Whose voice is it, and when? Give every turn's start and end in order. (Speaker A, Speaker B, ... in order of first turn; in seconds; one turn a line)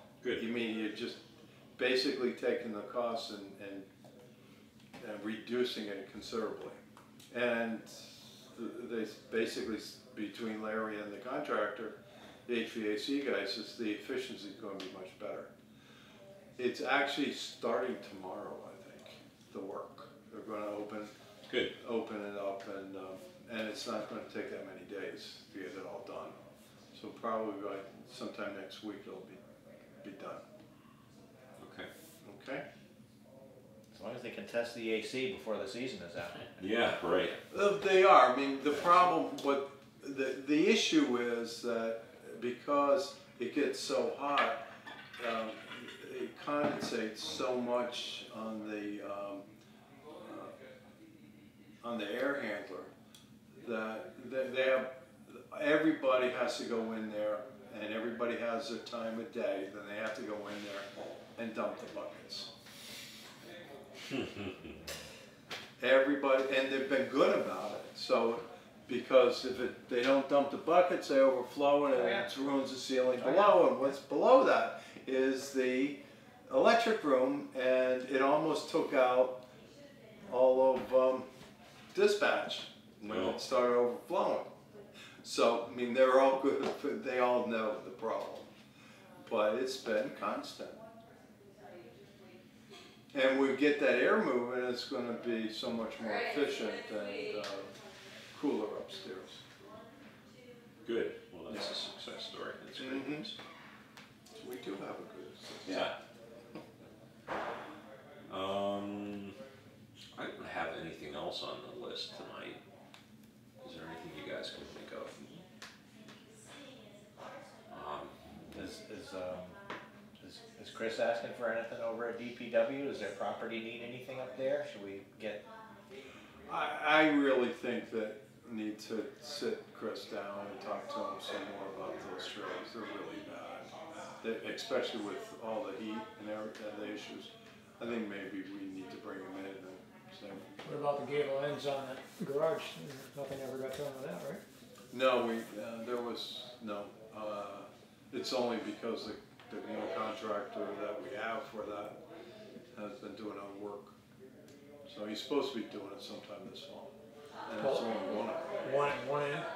Speaker A: 0.3-3.9
Speaker A: 5.0-6.8
Speaker A: 7.3-15.5
Speaker A: 16.6-21.1
Speaker B: 21.5-21.7
Speaker A: 21.8-29.4
Speaker A: 30.0-30.4
Speaker B: 31.6-31.9
Speaker A: 32.2-32.6
Speaker C: 33.9-36.6
Speaker B: 36.6-37.4
Speaker A: 37.5-44.6
Speaker A: 45.2-49.4
Speaker A: 50.2-50.5
Speaker A: 51.8-52.9
Speaker A: 53.6-62.5
Speaker B: 64.1-64.7
Speaker A: 65.8-79.4
Speaker D: 73.2-73.6
Speaker A: 80.3-81.3
Speaker A: 81.9-84.5
Speaker B: 83.0-83.4
Speaker A: 85.2-88.5
Speaker A: 89.2-90.8
Speaker A: 93.1-97.7
Speaker A: 98.3-99.4
Speaker B: 100.8-103.4
Speaker A: 101.5-101.7
Speaker A: 102.8-103.3
Speaker A: 104.4-105.9
Speaker B: 105.6-106.0
Speaker B: 108.3-109.4
Speaker B: 110.1-112.6
Speaker B: 113.6-115.3
Speaker B: 117.7-118.2
Speaker C: 118.5-119.6
Speaker C: 120.2-125.4
Speaker A: 126.5-140.9
Speaker D: 140.7-144.4
Speaker A: 144.9-152.0
Speaker A: 152.7-153.9
Speaker A: 154.8-156.9
Speaker A: 157.4-158.9
Speaker D: 157.6-157.9
Speaker D: 158.6-159.5